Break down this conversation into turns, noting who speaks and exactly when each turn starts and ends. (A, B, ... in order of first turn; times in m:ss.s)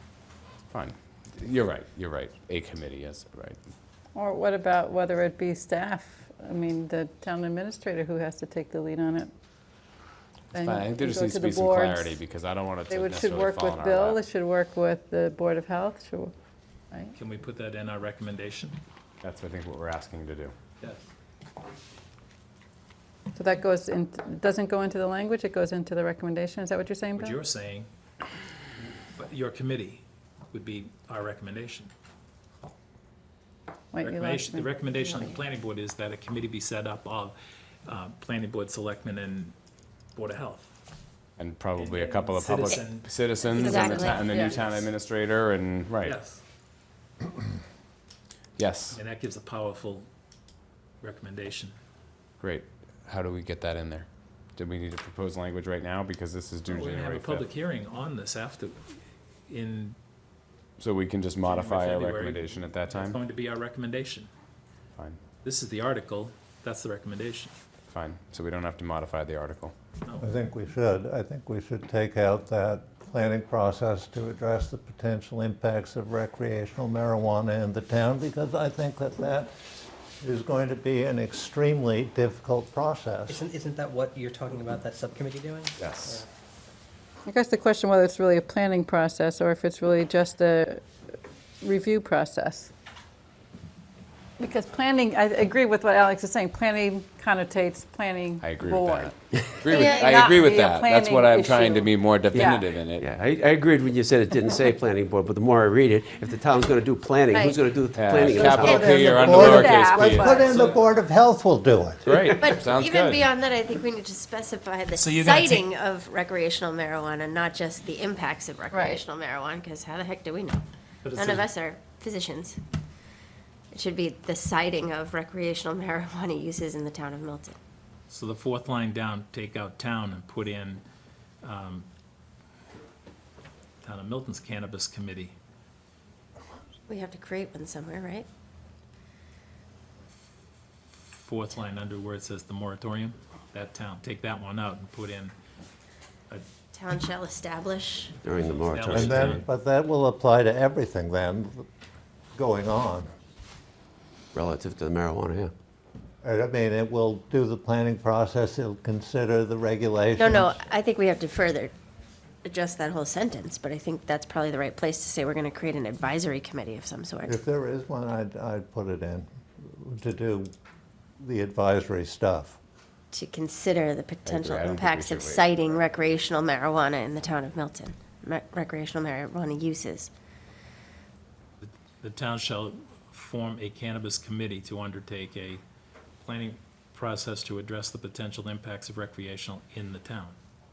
0:00.7-0:03.6 A
0:04.2-0:09.3 B
0:10.5-0:12.2 B
0:10.5-0:14.2 A
0:12.9-0:16.3 B
0:17.2-0:18.8 C
0:19.2-0:20.5 A
0:20.8-0:21.1 C
0:23.4-0:27.4 B
0:27.2-0:27.9 C
0:29.2-0:31.9 C
0:33.9-0:34.7 B
0:34.0-0:39.6 C
0:40.2-0:40.7 C
0:41.4-0:46.2 A
0:41.8-0:44.8 C
0:43.6-0:44.2 D
0:43.6-0:44.1 E
0:44.2-0:44.6 B
0:46.0-0:46.4 C
0:48.6-0:49.0 A
0:48.9-0:50.1 C
0:51.0-0:51.8 C
0:52.4-0:57.5 A
0:56.7-0:58.9 C
0:59.5-1:00.0 C
1:00.8-1:03.2 A
1:01.4-1:04.3 C
1:05.4-1:07.5 C
1:07.9-1:09.8 A
1:10.2-1:19.7 F
1:20.2-1:23.4 F
1:23.3-1:26.3 E
1:25.8-1:26.2 A
1:27.3-1:30.8 B
1:31.6-1:32.7 B
1:34.4-1:39.2 B
1:38.4-1:43.1 A
1:39.7-1:42.7 B
1:39.7-1:40.5 D
1:43.0-1:49.0 G
1:47.3-1:47.6 D
1:47.9-1:50.5 A
1:48.3-1:52.3 F
1:48.6-1:49.2 D
1:49.0-1:50.8 B
1:52.0-1:53.3 A
1:52.4-2:00.6 D
1:55.0-1:55.6 C
1:58.7-1:59.0 B
2:01.0-2:01.5 C
2:01.2-2:02.6 D
2:03.7-2:07.6 D
2:08.1-2:10.8 C
2:11.4-2:11.9 C
2:13.8-2:15.4 C
2:16.9-2:18.3 D
2:21.0-2:25.4 C
2:26.7-2:28.1 D
2:28.2-2:29.4 G
2:28.6-2:29.4 C
2:28.9-2:31.7 F
2:32.4-2:33.1 F
2:34.3-2:35.5 G
2:36.2-2:40.6 F
2:40.2-2:41.7 D
2:42.4-2:47.4 D
2:47.3-2:50.5 F
2:51.2-2:52.6 F
2:53.1-3:00.1 D
2:54.3-2:55.8 A
3:01.6-3:05.6 C
3:06.2-3:10.4 C